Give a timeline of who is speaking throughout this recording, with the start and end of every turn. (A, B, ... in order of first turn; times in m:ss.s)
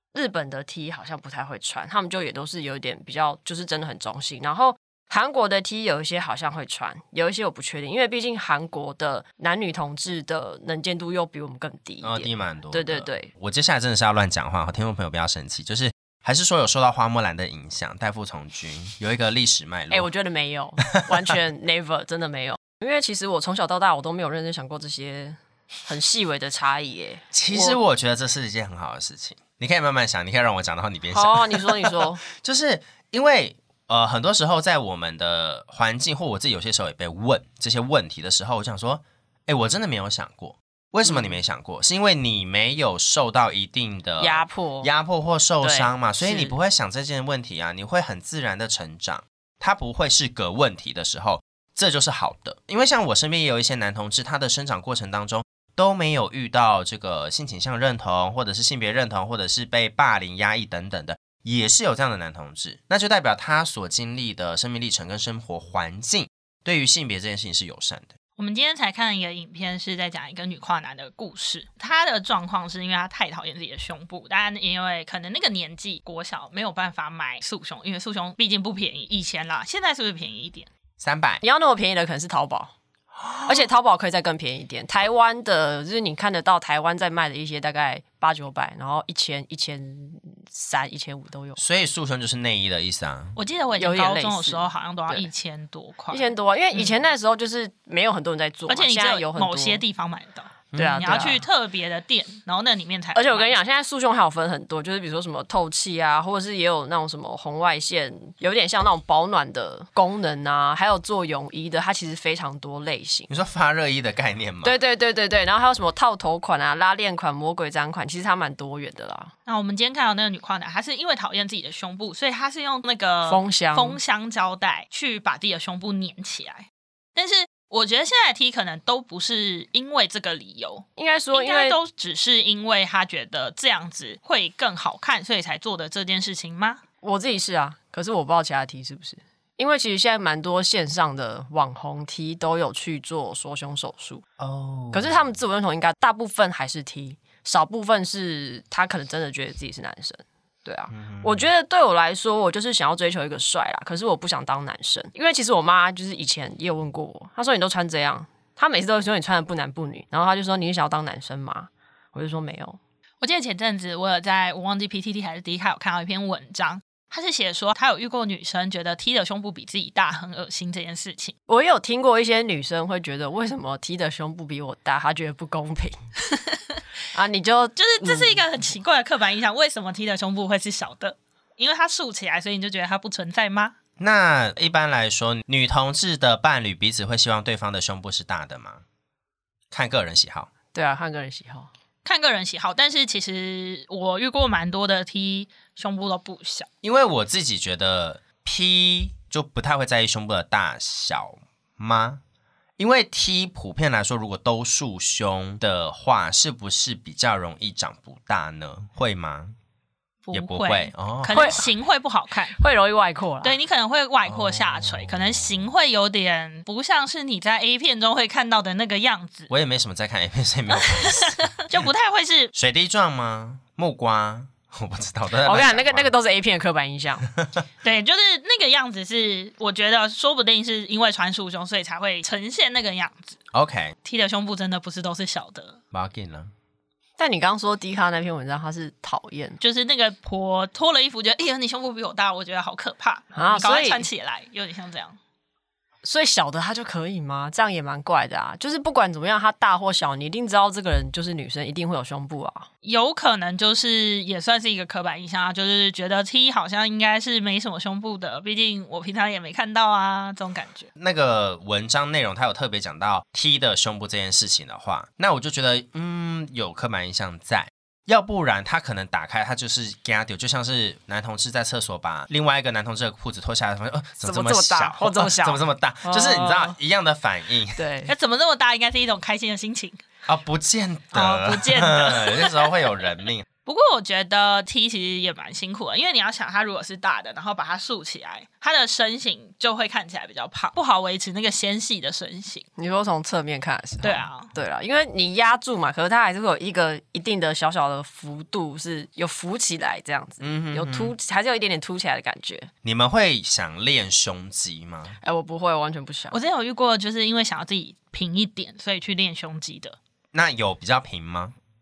0:00.1-0:13.3 A
0:12.0-0:20.1 B
0:19.9-0:27.8 A
0:27.3-1:08.1 B
0:31.1-0:32.2 A
0:41.0-0:41.4 A
0:44.2-0:44.9 A
0:45.6-0:46.6 A
1:08.4-1:20.7 C
1:21.0-1:21.4 B
1:21.4-1:22.7 A
1:23.2-1:23.7 B
1:23.4-1:31.6 A
1:31.6-1:33.4 B
1:33.4-1:36.3 C
1:33.8-1:35.3 A
1:36.1-1:39.8 A
1:38.7-1:43.6 C
1:40.7-1:41.1 B
1:40.8-1:41.4 A
1:43.2-1:53.3 A
1:53.3-1:54.8 B
1:54.6-1:59.3 A
1:59.5-2:16.8 C
2:03.3-2:04.0 A
2:11.0-2:11.8 A
2:17.0-2:24.2 A
2:24.4-2:25.2 B
2:24.9-2:42.8 A
2:30.9-2:31.4 B
2:43.2-2:51.4 C
2:51.5-2:56.0 A
2:57.1-2:58.4 A
2:57.8-3:03.7 C
3:04.0-3:08.8 B
3:09.7-3:10.5 B
3:10.7-3:11.7 A
3:12.0-3:16.7 C
3:16.8-3:22.2 B
3:22.8-3:29.6 B
3:30.2-3:32.6 C
3:30.3-3:31.7 B
3:31.3-3:31.6 A
3:32.6-3:33.6 A
3:33.4-3:39.5 C
3:34.3-3:35.7 B
3:39.5-3:41.4 B
3:40.8-3:42.5 C
3:42.5-3:46.1 B
3:45.4-3:47.3 A
3:47.4-3:47.6 B
3:47.8-3:53.4 C
3:53.5-3:54.0 B
3:54.0-3:55.8 C
3:55.9-3:56.5 B
3:57.2-3:59.6 A
3:59.6-4:05.2 C
4:03.4-4:04.1 A
4:06.0-4:12.7 A
4:12.8-4:20.9 C
4:21.0-4:37.8 B
4:34.2-4:36.8 A
4:37.8-4:38.1 A
4:38.1-4:40.0 C
4:40.3-4:43.5 B
4:41.1-4:42.8 C
4:43.7-4:52.6 C
4:52.8-5:02.7 A
4:54.0-4:54.5 C
5:00.4-5:01.1 B
5:02.8-5:05.2 B
5:05.2-5:06.4 A
5:06.3-5:10.0 C
5:10.3-5:11.6 B